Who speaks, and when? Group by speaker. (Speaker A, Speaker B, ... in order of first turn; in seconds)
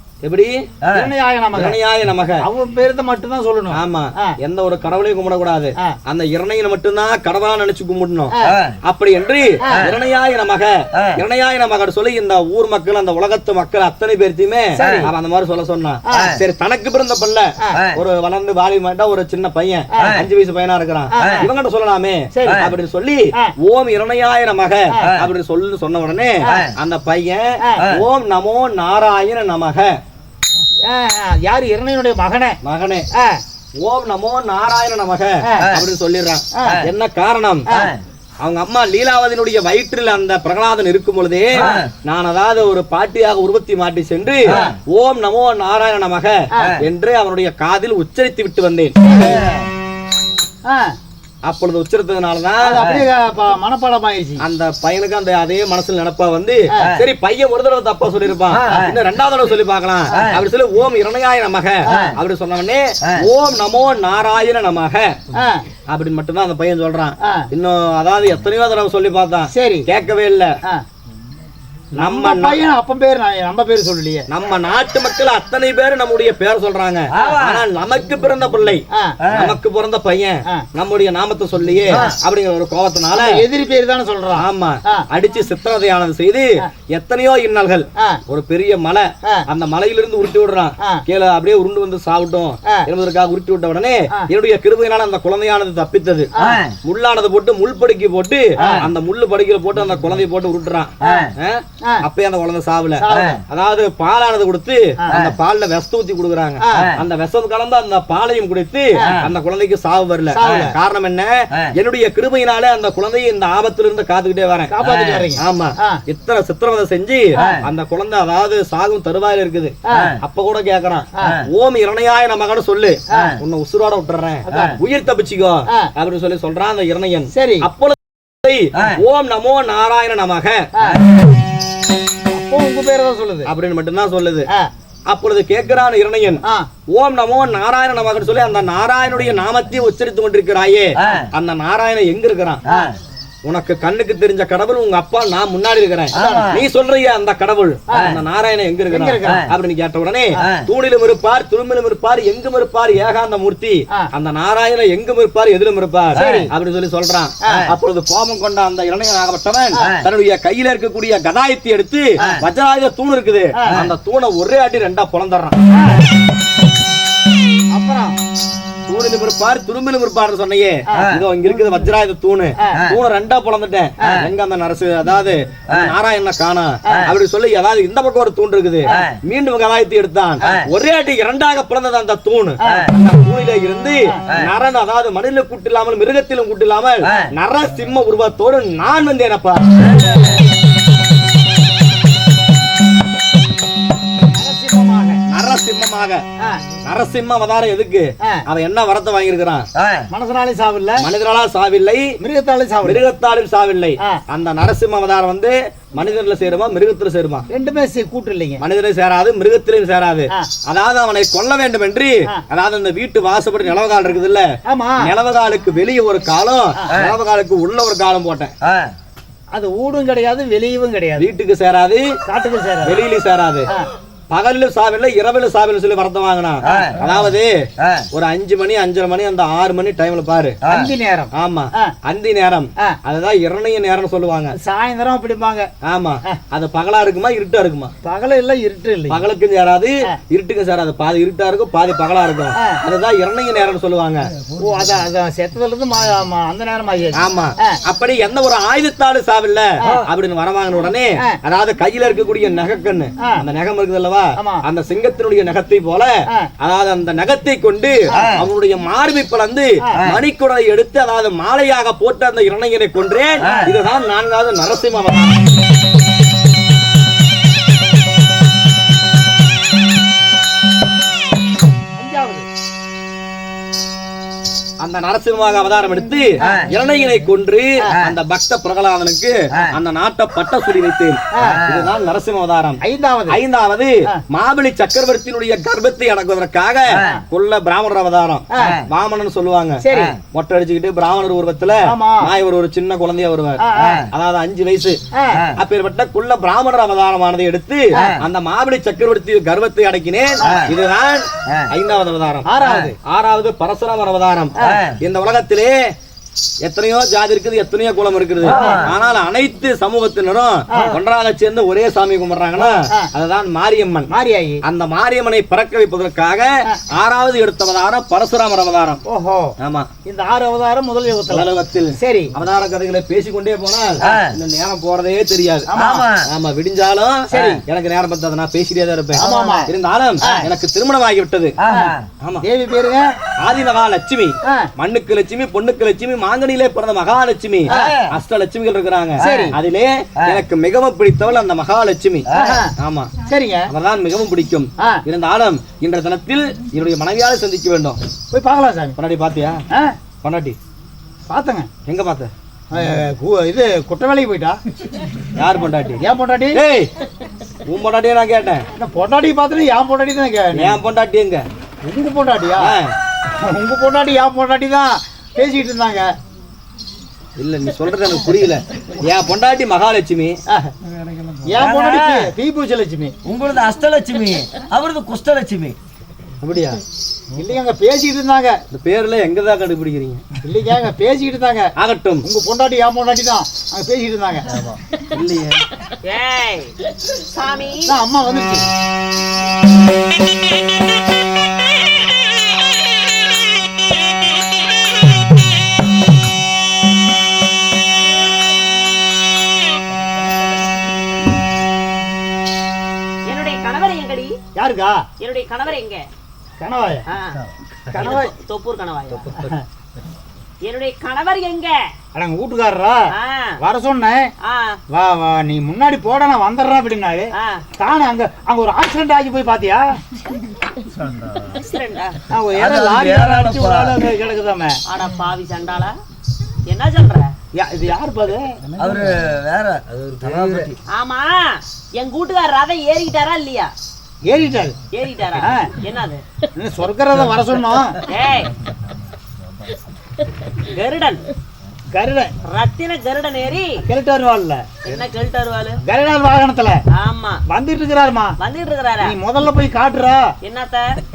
Speaker A: 0.2-0.7, 1.5-2.4, 3.7-29.9, 32.6-33.1, 33.8-37.7, 38.4-49.1, 51.4-52.9, 54.4-65.2, 65.9-70.5, 72.0-72.6, 74.3-83.5, 84.3-96.3, 96.8-114.7, 115.4-130.7, 133.4-134.5, 135.1-142.6, 143.4-165.6, 168.9-189.9, 195.3-196.2, 196.8-199.7, 201.0-202.1, 202.8-207.5, 208.6-218.5, 221.2-222.1, 222.8-223.7, 224.3-230.6, 231.3-234.5, 235.8-237.9, 239.1-244.3, 247.2-265.5, 274.8-282.8, 283.3-295.0, 295.6-302.5, 303.0-305.8, 306.6-314.1, 314.6-319.0, 319.6-319.9, 321.3-325.7, 326.2-331.6, 333.4-342.3, 342.8-343.1, 343.7-348.0, 349.0-349.6, 350.2-350.6, 351.9-352.3, 355.4-356.9, 357.7-358.6, 360.5-361.4, 362.6-362.9, 367.4-370.4, 376.4-376.8, 378.7-380.2, 381.8-382.2, 385.1-385.6
Speaker B: 0.9-1.8, 2.4-4.3, 8.3-8.6, 9.6-9.9, 14.7-15.1, 16.1-16.4, 19.9-20.2, 21.1-21.5, 22.3-22.7, 26.4-26.7, 27.6-27.9, 30.9-32.6, 33.1-33.4, 35.4-35.7, 36.5-36.8, 37.7-37.9, 46.5-46.8, 50.7-50.9, 52.6-54.4, 61.9-62.1, 65.3-65.7, 67.2-67.5, 69.5-69.9, 71.9-74.2, 78.9-79.2, 83.1-85.0, 96.3-96.6, 98.6-98.8, 101.0-101.3, 103.0-103.4, 106.6-106.9, 110.3-110.7, 114.7-116.0, 119.9-120.1, 123.1-123.3, 124.5-124.8, 127.3-127.7, 130.8-131.0, 132.3-133.5, 146.1-146.6, 147.9-148.2, 148.9-149.4, 156.2-156.5, 163.6-163.8, 165.7-166.1, 167.7-168.1, 176.8-177.1, 194.3-195.2, 200.1-201.1, 202.2-203.0, 207.5-208.6, 214.7-215.1, 219.5-221.3, 222.3-223.0, 226.7-226.9, 230.7-231.9, 234.6-235.7, 238.0-239.2, 242.6-242.8, 244.6-247.8, 254.4-254.6, 263.4-263.7, 271.9-272.4, 281.4-281.6, 282.8-283.4, 288.5-288.8, 289.8-290.1, 291.9-292.3, 293.6-294.0, 295.1-295.4, 302.4-302.9, 304.6-304.8, 308.4-308.9, 310.7-311.0, 312.6-313.1, 314.1-314.6, 319.1-319.5, 320.0-322.3, 325.7-326.0, 327.3-327.6, 329.1-330.4, 331.7-333.0, 337.7-338.0, 339.2-339.6, 342.3-342.7, 343.3-343.7, 348.3-349.0, 351.3-351.7, 352.7-354.6, 356.0-356.6, 358.8-360.8, 361.8-362.8, 363.4-366.1, 371.4-373.1, 377.4-378.6, 380.4-384.6, 387.9-388.7, 404.5-405.1, 406.6-407.1, 407.9-408.3, 409.4-409.6, 412.1-413.1, 413.6-414.3, 414.9-419.8, 422.3-424.8, 427.5-428.6, 434.2-434.8, 435.4-435.7, 436.6-438.0, 441.9-442.3, 443.9-444.6, 445.8-446.8, 447.5-448.4, 449.0-450.3
Speaker C: 37.7-38.0, 49.2-49.6, 58.5-58.9, 77.1-77.6, 79.2-79.6, 96.4-96.7, 114.9-115.2, 141.0-141.3, 142.7-142.9, 146.1-146.6, 189.9-190.3, 199.8-200.0, 218.7-218.9, 281.5-281.9, 304.6-304.9, 308.5-308.8, 324.0-324.3, 325.8-326.2, 331.7-332.1, 337.7-338.1, 371.6-372.3, 373.2-375.8, 421.1-421.4, 422.6-423.9, 428.8-430.7
Speaker D: 386.0-387.9, 403.3-404.3, 405.2-406.1, 407.1-407.4, 407.9-409.3, 410.6-411.8, 413.1-413.6, 414.4-414.8, 417.4-417.6, 421.5-422.2, 424.9-425.9, 426.7-427.3, 430.9-433.7, 434.9-436.2, 438.1-438.5, 440.7-441.2, 442.4-443.8, 444.8-445.8, 446.9-447.4, 448.4-449.1, 450.4-451.0